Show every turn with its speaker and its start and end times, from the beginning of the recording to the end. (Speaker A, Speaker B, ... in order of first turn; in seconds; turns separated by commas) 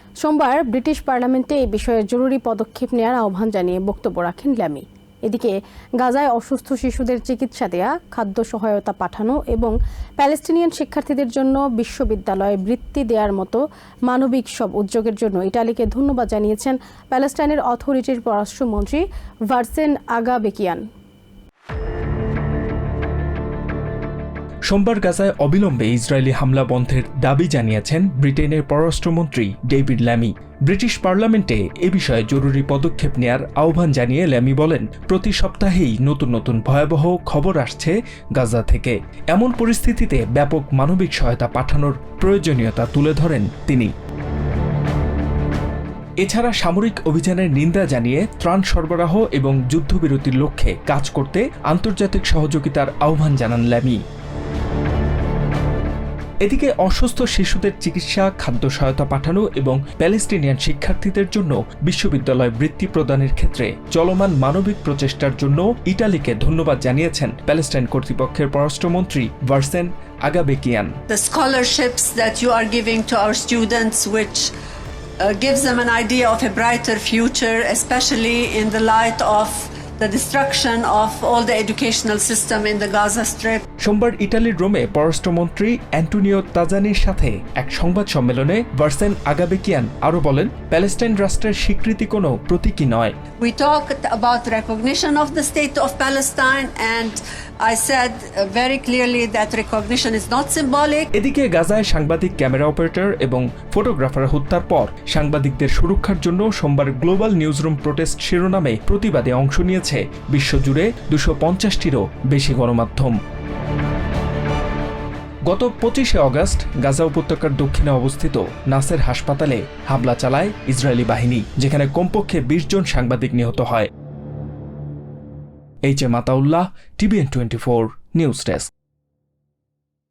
Speaker A: 0.2-20.8, Speaker B: 24.7-43.9, Speaker B: 46.2-54.0, Speaker B: 56.4-71.0, Speaker C: 71.1-74.5, Speaker C: 75.2-83.6, Speaker B: 83.8-93.2, Speaker C: 93.4-101.1, Speaker B: 101.1-113.2, Speaker B: 115.5-123.9, Speaker B: 125.9-128.7